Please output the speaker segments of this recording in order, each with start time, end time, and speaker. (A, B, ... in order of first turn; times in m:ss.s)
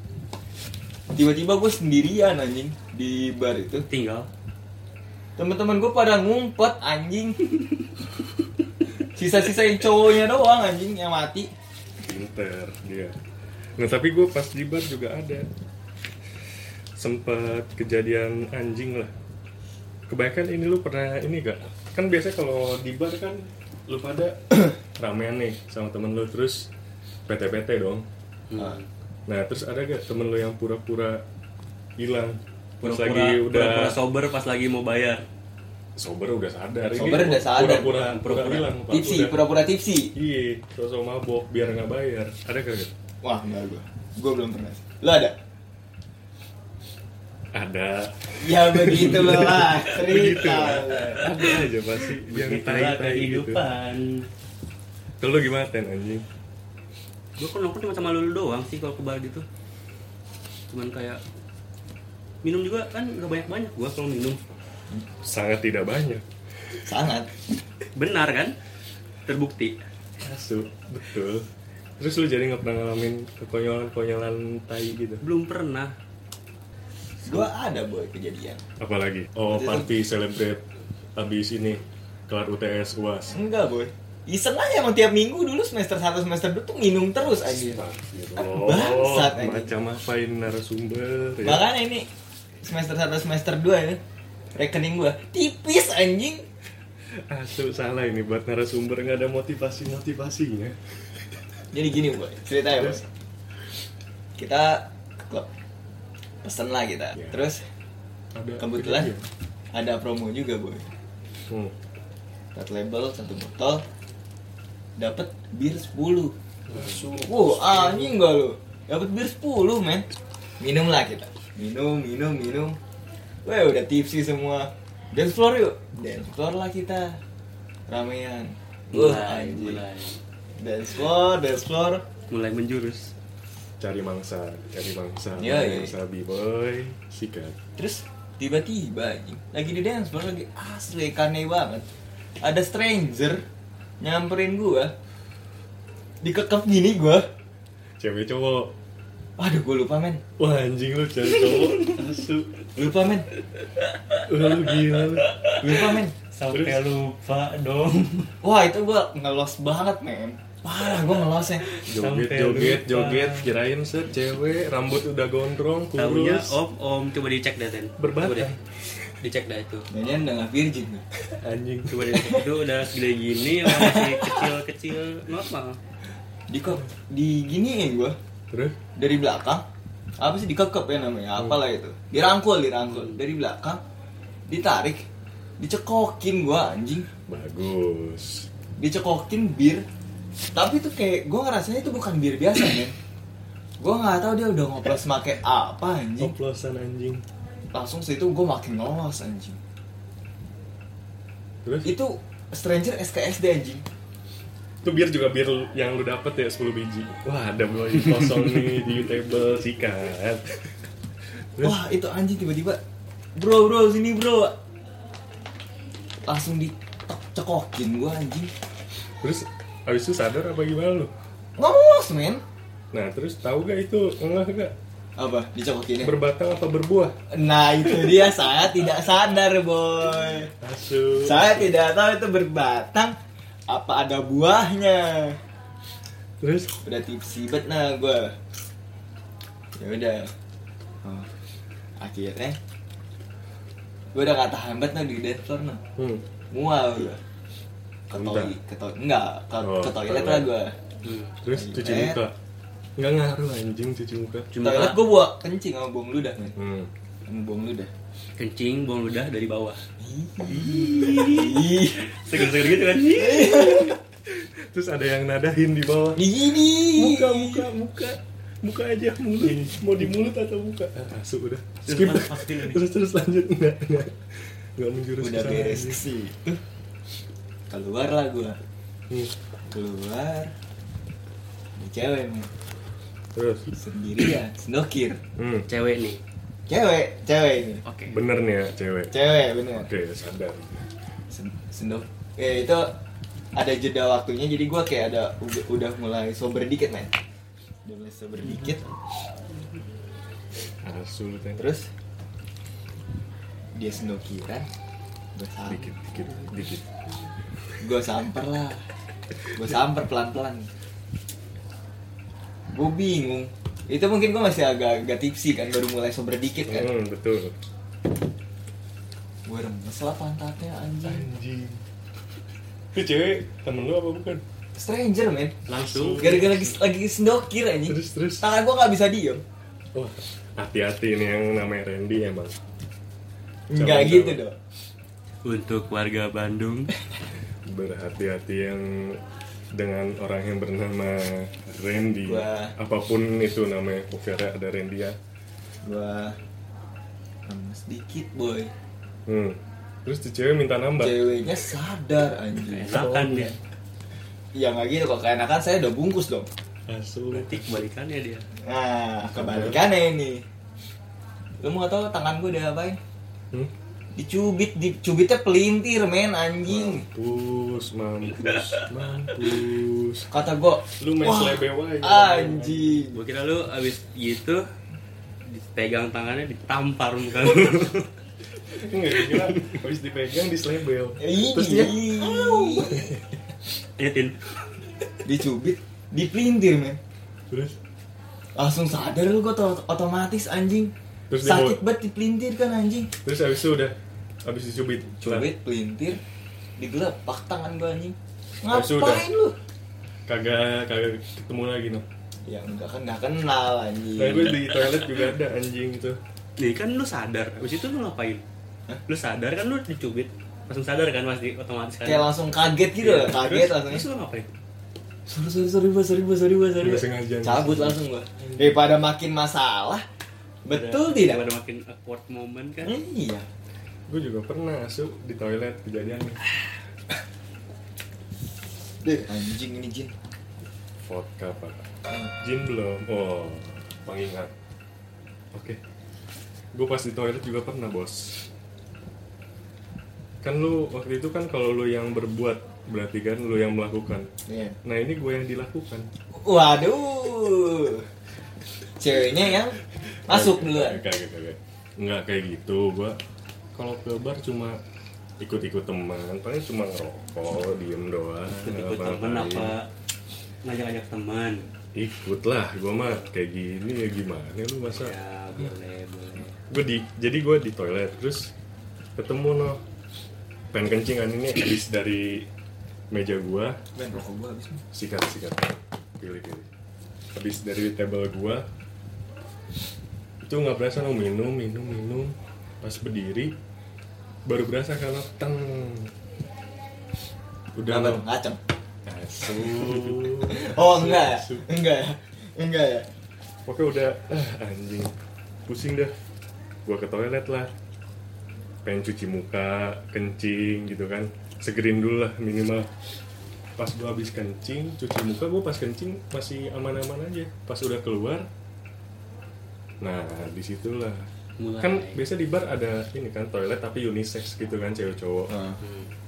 0:01.1-0:03.9 A
0:03.9-0:04.3 B
0:05.4-0:07.6 A
0:09.1-0:11.5 A
0:12.0-0:13.2 C
0:13.8-0:15.5 C
0:17.0-0:19.1 C
0:20.1-0:26.7 C
0:27.3-0:28.1 C
0:28.5-0:28.8 B
0:29.3-0:31.2 C
0:32.0-0:34.0 C
0:32.8-0:35.2 B
0:36.0-0:39.4 C
0:37.0-0:38.0 A
0:37.5-0:38.7 B
0:38.9-0:40.1 A
0:40.1-0:42.9 C
0:43.2-0:45.4 A
0:47.5-0:53.6 C
0:48.4-0:51.3 A
0:50.9-0:54.3 B
0:55.2-0:56.2 C
0:57.4-0:59.5 B
1:00.7-1:01.2 B
1:02.4-1:04.4 B
1:05.2-1:06.2 C
1:06.8-1:07.3 A
1:08.0-1:08.6 B
1:09.3-1:09.8 B
1:10.2-1:11.5 C
1:12.0-1:15.2 C
1:15.2-1:16.0 B
1:17.2-1:18.6 A
1:18.8-1:20.6 C
1:19.5-1:19.9 A
1:21.2-1:23.4 C
1:23.3-1:27.8 A
1:27.2-1:31.6 C
1:28.4-1:29.7 A
1:31.4-1:32.1 A
1:32.6-1:34.0 A
1:34.6-1:36.4 A
1:37.1-1:41.4 C
1:41.7-1:43.0 A
1:42.8-1:43.0 C
1:44.4-1:45.5 A
1:46.4-1:47.6 A
1:48.3-1:49.3 C
1:48.6-1:49.1 A
1:49.7-1:50.9 A
1:51.5-1:51.7 C
1:52.6-1:53.8 A
1:55.0-1:56.4 A
1:56.7-1:58.1 C
1:57.2-2:00.1 A
2:00.6-2:02.8 A
2:03.4-2:07.2 A
2:07.9-2:09.8 A
2:08.9-2:10.2 B
2:10.6-2:12.0 A
2:12.3-2:13.1 B
2:13.8-2:17.6 C
2:15.4-2:15.9 A
2:17.8-2:21.8 A
2:22.4-2:23.4 A
2:24.0-2:24.9 A
2:26.2-2:27.3 A
2:28.0-2:28.7 C
2:29.4-2:30.2 A
2:30.4-2:32.6 C
2:31.4-2:32.0 B
2:32.8-2:33.3 A
2:33.9-2:38.3 B
2:34.2-2:35.4 C
2:35.6-2:36.1 A
2:36.5-2:36.8 C
2:38.4-2:41.7 A
2:40.8-2:43.5 B
2:41.9-2:46.6 C
2:46.0-2:48.5 B
2:48.0-2:48.6 C
2:49.2-2:49.9 B
2:49.9-2:51.0 A
2:51.4-2:52.1 C
2:51.9-2:55.8 B
2:53.6-2:54.5 A
2:56.5-2:58.2 A
2:58.5-2:58.8 C
2:59.0-2:59.6 A
3:00.2-3:03.8 A
3:04.5-3:05.0 A
3:05.6-3:07.1 A
3:07.3-3:08.5 C
3:08.8-3:09.8 A
3:10.5-3:13.0 A
3:13.8-3:16.3 A
3:16.2-3:17.2 C
3:17.7-3:19.6 A
3:21.6-3:21.9 C
3:21.8-3:23.8 A
3:24.8-3:30.8 C
3:31.6-3:32.8 A
3:33.4-3:34.5 A
3:36.2-3:38.5 A
3:39.2-3:41.1 C
3:41.6-3:42.4 A
3:42.9-3:44.7 C
3:45.2-3:46.2 A
3:46.0-3:47.2 C
3:47.3-3:50.5 A
3:50.6-3:51.7 C
3:51.2-3:53.2 A
3:53.7-3:55.4 A
3:56.4-3:56.8 C
3:56.8-3:58.4 A
3:59.8-4:00.3 A
4:01.0-4:01.3 A
4:02.0-4:02.6 A
4:04.1-4:05.8 A
4:06.0-4:06.2 C
4:06.5-4:07.2 A
4:08.1-4:10.7 A
4:08.1-4:08.5 C
4:09.6-4:10.5 C
4:11.0-4:11.3 B
4:11.4-4:12.4 C
4:11.5-4:12.2 A
4:13.0-4:14.5 C
4:14.5-4:15.0 B
4:14.6-4:16.5 A
4:16.5-4:16.9 C
4:17.2-4:17.9 A
4:18.4-4:19.8 B
4:20.0-4:22.1 A
4:20.4-4:23.9 B
4:23.0-4:24.0 A
4:24.2-4:26.4 C
4:26.2-4:27.7 A
4:26.9-4:36.0 C
4:29.4-4:29.7 B
4:31.8-4:32.8 B
4:35.2-4:36.5 A
4:37.7-4:38.6 A
4:39.7-4:40.5 A
4:41.8-4:42.5 A
4:43.4-4:43.7 C
4:43.8-4:45.2 A
4:45.4-4:45.7 C
4:45.7-4:46.2 B
4:46.7-4:47.8 A
4:47.8-4:48.2 B
4:48.1-4:49.2 C
4:49.1-4:49.9 A
4:49.7-4:50.8 C
4:51.3-4:52.9 A
4:53.5-4:57.1 A
4:57.8-4:58.8 A
5:00.8-5:01.6 C
5:01.6-5:01.9 A
5:03.8-5:04.7 A
5:05.4-5:05.9 A
5:05.7-5:07.2 C
5:07.8-5:08.8 A
5:09.5-5:10.7 A
5:12.7-5:16.9 A
5:16.7-5:17.6 C
5:19.5-5:21.2 A
5:21.0-5:21.8 C
5:22.9-5:24.4 C
5:24.8-5:25.6 A
5:25.7-5:26.4 B
5:25.8-5:26.8 C
5:26.2-5:29.4 A
5:27.9-5:28.5 C
5:29.9-5:32.6 C
5:33.7-5:34.6 A
5:33.7-5:34.4 C
5:35.4-5:36.9 B
5:37.7-5:39.2 C
5:39.7-5:45.2 C
5:42.2-5:42.8 A
5:45.8-5:46.4 A
5:47.5-5:48.7 A
5:49.3-5:51.3 C
5:51.0-5:53.2 A
5:52.7-5:53.5 B
5:52.9-5:53.5 C
5:54.5-5:56.5 A
5:56.9-5:57.8 C
5:57.3-5:58.5 B
5:58.6-6:00.4 A
5:59.3-5:59.8 C
6:01.6-6:03.0 A
6:04.2-6:07.0 A
6:06.7-6:10.3 C
6:10.3-6:13.2 A
6:11.0-6:13.0 C
6:13.1-6:14.6 B
6:15.5-6:18.1 B
6:18.7-6:23.2 C
6:19.1-6:19.7 B
6:21.2-6:23.0 A
6:24.0-6:24.5 B
6:25.2-6:27.0 A
6:27.5-6:27.8 C
6:28.6-6:33.1 A
6:31.3-6:31.8 C
6:33.2-6:35.5 C
6:35.2-6:36.2 A
6:36.8-6:39.5 A
6:38.7-6:39.3 C
6:40.3-6:42.0 C
6:42.5-6:44.6 A
6:44.2-6:46.2 C
6:46.6-6:48.4 B
6:49.1-6:52.3 B
6:52.0-6:54.0 A
6:53.0-6:54.5 B
6:55.3-7:00.0 A
6:56.8-6:58.7 C
7:00.6-7:01.4 A
7:00.7-7:03.0 B
7:02.8-7:03.5 A
7:04.1-7:06.4 C
7:09.0-7:10.1 A
7:11.0-7:14.5 C
7:15.5-7:15.8 C
7:16.7-7:18.4 C
7:20.4-7:24.3 C
7:24.5-7:24.8 A
7:24.8-7:26.1 C
7:26.4-7:28.1 A
7:29.0-7:31.0 A
7:30.3-7:33.2 C
7:33.8-7:34.8 C
7:35.4-7:39.8 C
7:38.6-7:39.9 B
7:40.6-7:41.7 B
7:42.0-7:45.2 C
7:44.9-7:46.6 B
7:46.7-7:48.5 C
7:49.2-7:49.8 C
7:50.7-7:52.5 C
7:53.1-7:53.8 C
7:54.0-7:54.8 A
7:54.9-7:56.7 C
7:57.3-7:58.7 C
8:00.4-8:03.5 C
8:04.5-8:06.1 C
8:07.8-8:08.2 C
8:07.9-8:08.6 A
8:09.0-8:11.6 C
8:09.7-8:13.1 A
8:13.7-8:15.1 C
8:15.7-8:16.2 C
8:16.9-8:17.7 C
8:18.8-8:22.9 C
8:23.8-8:28.5 C
8:30.0-8:31.3 C
8:31.6-8:32.2 B
8:31.8-8:35.6 C
8:35.8-8:36.1 B